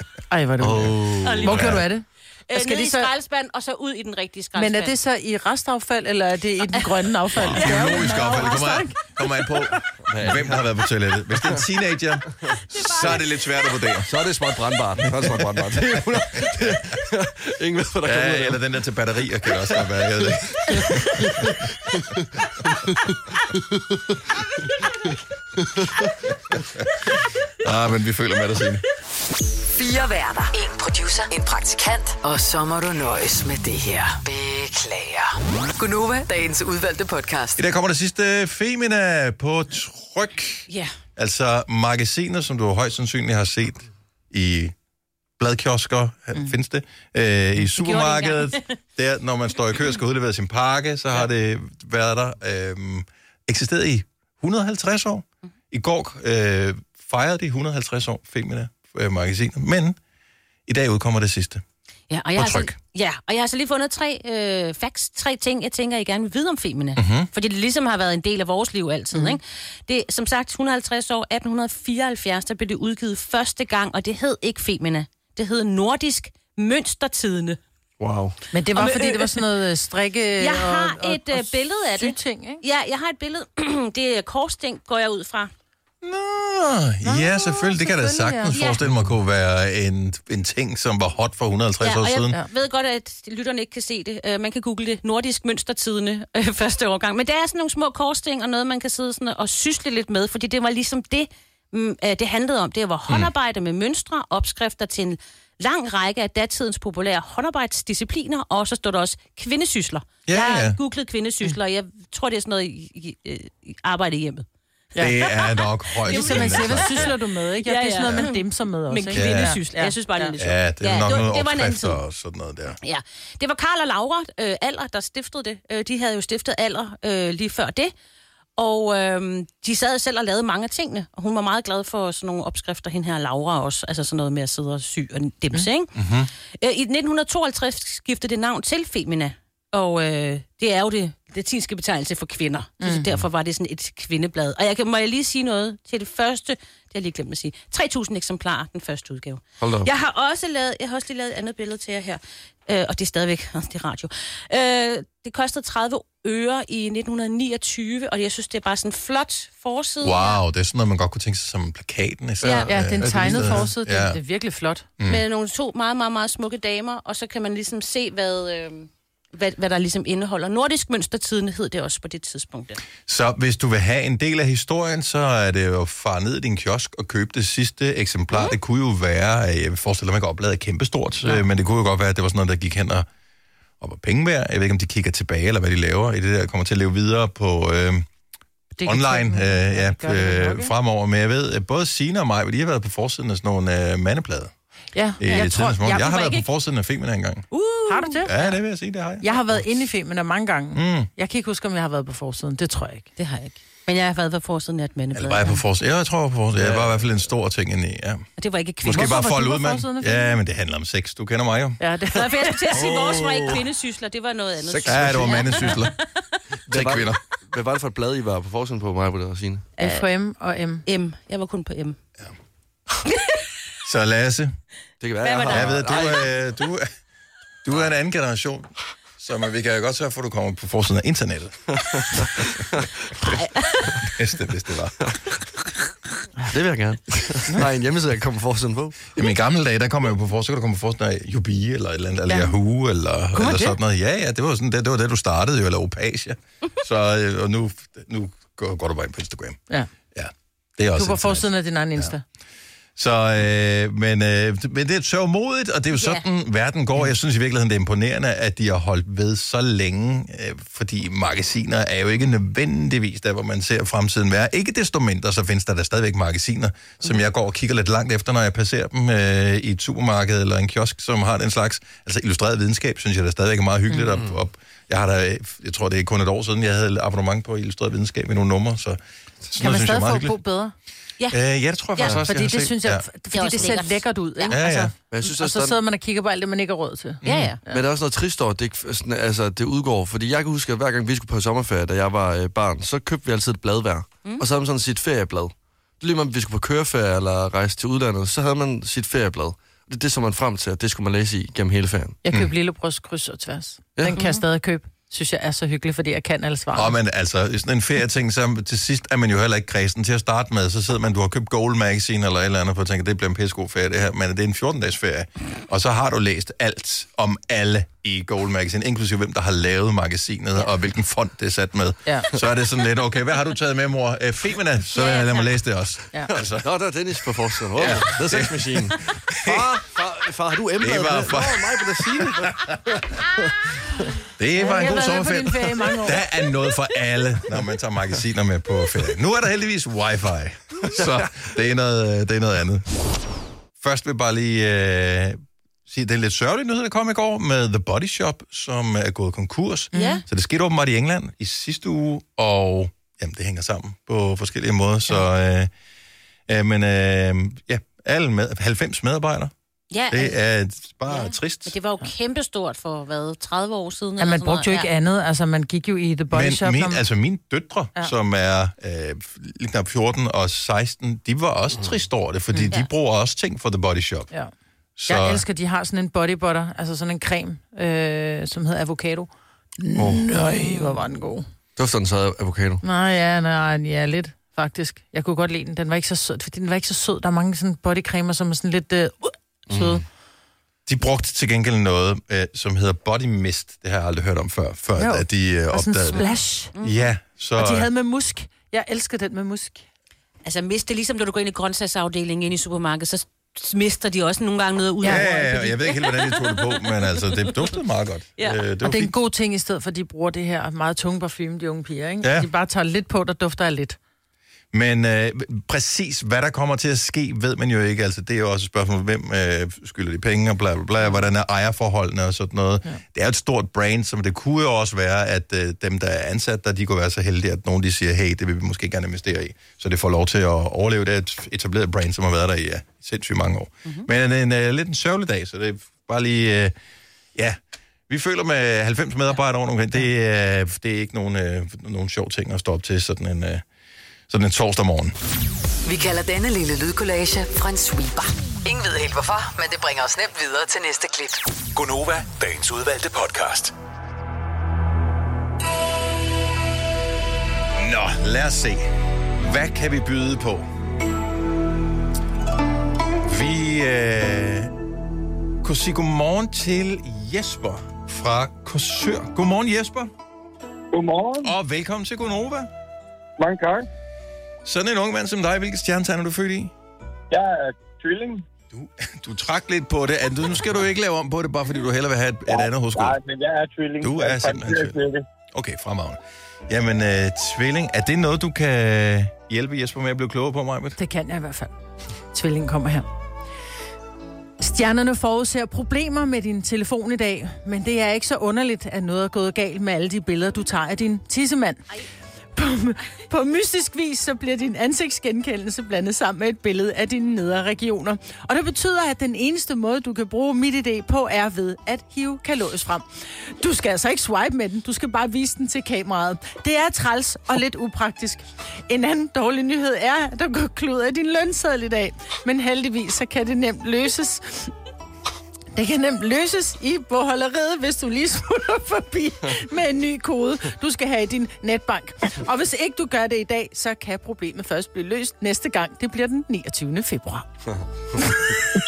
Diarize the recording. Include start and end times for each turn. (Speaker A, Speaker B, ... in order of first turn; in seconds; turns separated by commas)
Speaker A: 0.3-3.1, Speaker B: 0.6-1.7, Speaker C: 0.8-1.8, Speaker D: 1.2-1.8, Speaker D: 2.5-5.0, Speaker A: 4.5-9.2, Speaker D: 6.7-8.5, Speaker C: 7.3-14.2, Speaker B: 10.1-10.7, Speaker D: 12.7-13.3, Speaker B: 14.1-18.6, Speaker C: 15.0-16.8, Speaker C: 18.0-21.6, Speaker B: 19.5-19.8, Speaker B: 20.6-23.2, Speaker B: 25.6-25.9, Speaker C: 27.6-28.8, Speaker E: 29.7-37.6, Speaker C: 37.6-44.8, Speaker C: 45.4-60.0, Speaker D: 47.7-48.8, Speaker C: 60.7-61.6, Speaker D: 62.1-77.6, Speaker C: 62.4-62.8, Speaker C: 67.0-67.3, Speaker A: 69.1-69.4, Speaker B: 78.0-78.4, Speaker A: 78.5-82.6, Speaker D: 78.8-79.5, Speaker D: 80.4-85.5, Speaker C: 86.0-92.4, Speaker A: 87.0-88.6, Speaker D: 88.5-88.8, Speaker D: 91.8-114.5, Speaker C: 110.3-110.8, Speaker C: 115.0-117.1, Speaker D: 115.1-122.0, Speaker A: 116.1-120.3, Speaker C: 119.1-119.6, Speaker C: 120.4-122.8, Speaker D: 122.8-127.9, Speaker D: 128.6-135.9, Speaker C: 135.9-136.3, Speaker D: 136.6-160.4, Speaker A: 142.8-143.1, Speaker B: 149.6-149.9, Speaker C: 160.0-164.2, Speaker D: 162.4-162.7, Speaker A: 162.7-164.9, Speaker D: 165.1-172.8, Speaker C: 173.1-183.1, Speaker C: 183.8-188.1, Speaker A: 188.8-190.7, Speaker C: 188.8-194.5, Speaker A: 194.9-196.4, Speaker C: 195.2-197.5, Speaker D: 195.3-196.4, Speaker D: 197.5-198.5, Speaker A: 197.9-198.3, Speaker C: 198.3-199.8, Speaker A: 199.2-203.1, Speaker C: 200.7-201.1, Speaker D: 203.2-205.6, Speaker C: 205.1-208.2, Speaker B: 206.6-207.1, Speaker D: 208.4-209.2, Speaker C: 208.8-211.8, Speaker A: 208.9-210.4, Speaker A: 211.8-212.6, Speaker D: 212.1-216.0, Speaker B: 212.7-213.6, Speaker B: 214.6-215.8, Speaker C: 214.8-216.0, Speaker B: 216.7-219.7, Speaker C: 216.7-217.2, Speaker A: 219.8-220.8, Speaker D: 219.8-220.1, Speaker D: 220.9-222.0, Speaker C: 223.8-224.5, Speaker B: 225.0-226.2, Speaker D: 225.2-226.1, Speaker C: 225.5-226.9, Speaker C: 227.6-231.7, Speaker B: 231.9-232.9, Speaker D: 233.3-233.9, Speaker C: 234.0-235.1, Speaker B: 236.5-239.1, Speaker C: 239.2-249.6, Speaker A: 242.3-242.5, Speaker A: 243.3-243.8, Speaker C: 250.1-252.1, Speaker A: 250.9-252.2, Speaker C: 253.0-280.4, Speaker D: 255.9-256.2, Speaker A: 279.6-280.7, Speaker C: 281.3-283.1, Speaker A: 282.1-287.8, Speaker D: 283.3-284.6, Speaker C: 284.5-284.9, Speaker B: 285.1-285.8, Speaker C: 287.2-287.6, Speaker D: 287.2-287.6, Speaker B: 287.7-302.2, Speaker A: 302.2-306.9, Speaker B: 304.0-304.2, Speaker C: 306.7-326.7, Speaker A: 322.1-322.3, Speaker D: 324.9-325.5, Speaker B: 326.3-334.1, Speaker C: 327.7-329.8, Speaker C: 330.8-332.9, Speaker C: 334.4-342.9, Speaker A: 334.6-336.2, Speaker B: 340.9-341.3, Speaker C: 343.8-355.7, Speaker A: 349.9-350.2, Speaker D: 349.9-350.2, Speaker C: 356.5-359.5, Speaker D: 359.9-360.4, Speaker C: 360.1-361.8, Speaker D: 361.1-364.9, Speaker A: 364.2-367.0, Speaker C: 366.3-374.3, Speaker C: 375.0-375.4, Speaker A: 375.1-381.5, Speaker B: 380.0-380.3, Speaker B: 381.8-382.8, Speaker A: 382.8-390.0, Speaker B: 389.7-390.0, Speaker C: 390.9-396.2, Speaker A: 395.0-396.7, Speaker D: 396.1-397.1, Speaker C: 396.8-397.9, Speaker A: 397.6-399.9, Speaker D: 400.4-407.5, Speaker A: 405.0-405.3, Speaker C: 405.0-409.2, Speaker A: 408.8-414.0, Speaker C: 412.2-412.5, Speaker C: 414.7-436.7, Speaker C: 438.1-443.6, Speaker C: 444.3-445.1, Speaker E: 445.9-451.4, Speaker F: 451.8-453.7, Speaker C: 457.8-458.9, Speaker C: 459.4-460.6, Speaker C: 463.2-464.7, Speaker C: 465.6-470.1, Speaker G: 470.9-471.5, Speaker C: 471.4-472.7, Speaker G: 473.4-473.9, Speaker C: 474.6-476.7, Speaker G: 477.3-478.4, Speaker C: 478.7-483.2, Speaker G: 482.5-485.2, Speaker C: 484.0-485.0, Speaker C: 485.5-491.0, Speaker A: 491.0-491.7, Speaker A: 492.3-493.1, Speaker A: 494.6-501.9, Speaker A: 502.6-524.7, Speaker A: 525.8-537.5, Speaker B: 537.7-538.6